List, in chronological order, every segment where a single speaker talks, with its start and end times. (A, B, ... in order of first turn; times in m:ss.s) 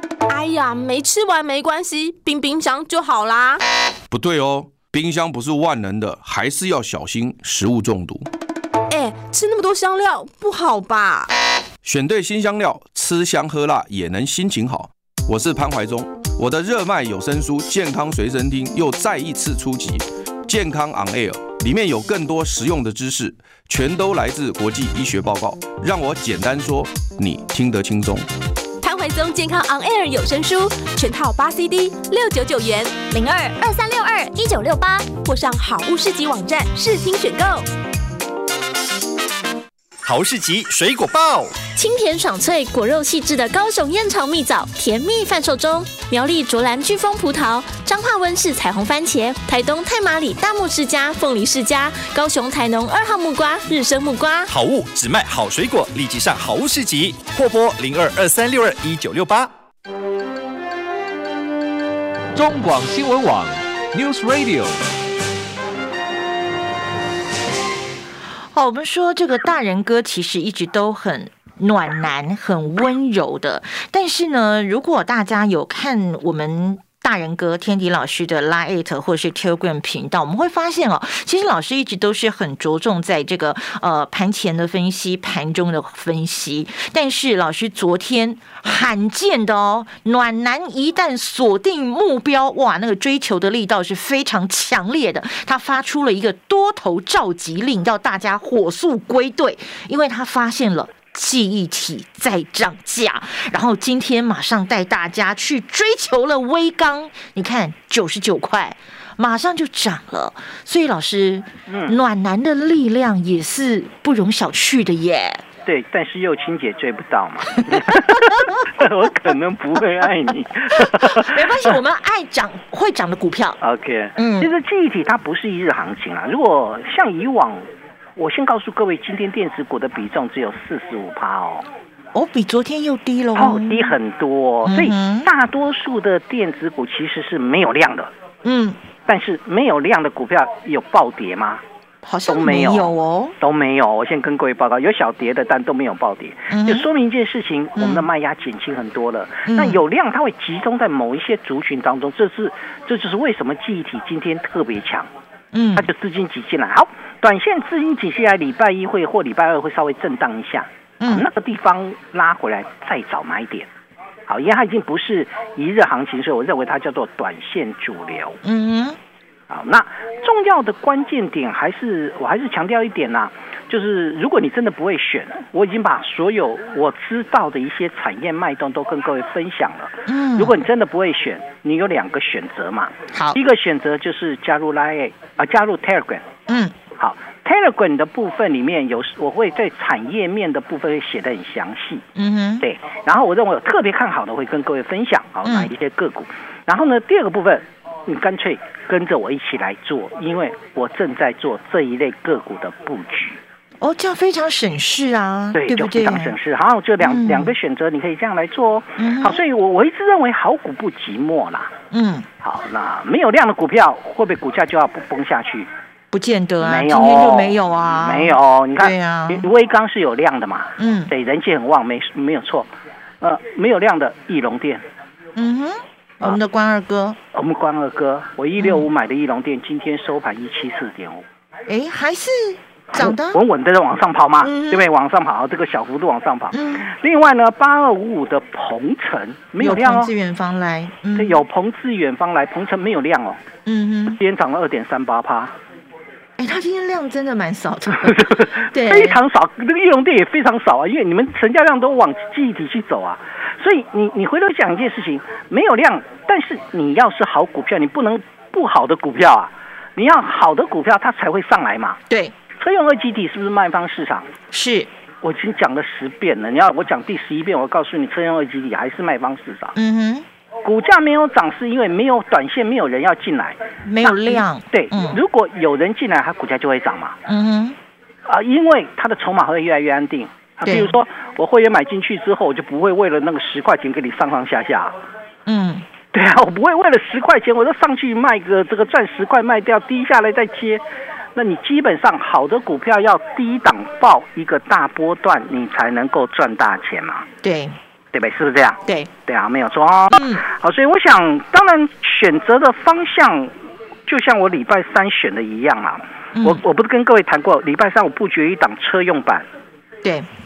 0:00.3-0:03.6 A
0:04.1-0:08.3 B
0:08.9-0:11.3 A
0:11.8-0:28.3 B
0:28.8-0:33.2 A
0:33.3-0:35.1 C
0:34.3-0:34.5 A
0:35.1-0:37.6 A
0:40.0-0:41.6 D
0:41.7-0:54.5 C
0:54.5-0:59.5 D
1:02.3-1:04.8 E
1:08.5-1:55.4 F
1:51.7-1:52.0 G
1:55.6-2:01.7 G
2:00.7-2:03.6 F
2:03.6-2:07.6 G
2:04.2-2:04.5 F
2:08.2-2:11.6 G
2:12.1-2:14.0 F
2:13.4-2:18.1 G
2:14.6-2:15.3 F
2:18.4-2:18.8 F
2:19.1-2:21.6 G
2:22.0-2:23.4 F
2:22.3-2:35.1 G
2:26.5-2:26.9 F
2:27.8-2:28.1 F
2:29.4-2:29.8 F
2:35.5-2:35.9 F
2:35.7-2:43.7 G
2:41.0-2:41.3 F
2:44.3-2:48.4 G
2:48.4-2:49.0 F
2:49.5-3:06.2 G
3:00.1-3:00.6 F
3:03.1-3:03.4 F
3:06.5-3:06.7 F
3:07.0-3:12.0 G
3:12.1-3:12.6 F
3:12.6-3:23.4 G
3:15.4-3:15.7 F
3:23.8-3:26.4 F
3:25.5-3:31.7 G
3:27.0-3:27.5 F
3:29.0-3:29.4 F
3:31.9-3:32.3 F
3:32.4-3:35.7 G
3:36.1-3:39.5 F
3:36.6-3:42.7 G
3:40.8-3:41.1 F
3:43.2-3:44.8 G
3:45.3-3:47.2 F
3:47.3-3:51.2 G
3:48.6-3:48.8 F
3:51.7-3:53.4 F
3:52.9-4:00.1 G
3:54.4-3:54.9 F
3:56.5-3:56.9 F
3:59.6-4:01.4 F
4:01.2-4:03.4 G
4:03.6-4:04.2 F
4:04.2-4:05.5 G
4:06.4-4:09.2 F
4:08.0-4:22.0 G
4:22.6-4:24.3 G
4:24.5-4:24.9 F
4:25.2-4:29.7 G
4:29.7-4:30.2 F
4:30.6-4:37.2 G
4:33.8-4:35.2 F
4:37.3-4:37.8 F
4:38.2-4:44.9 G
4:40.6-4:40.9 F
4:45.4-4:45.8 F
4:46.1-4:50.8 G
4:51.4-4:57.3 G
4:57.4-4:57.8 F
4:58.1-5:03.5 G
4:58.8-4:59.1 F
5:00.1-5:00.4 F
5:04.1-5:09.4 G
5:06.3-5:06.6 F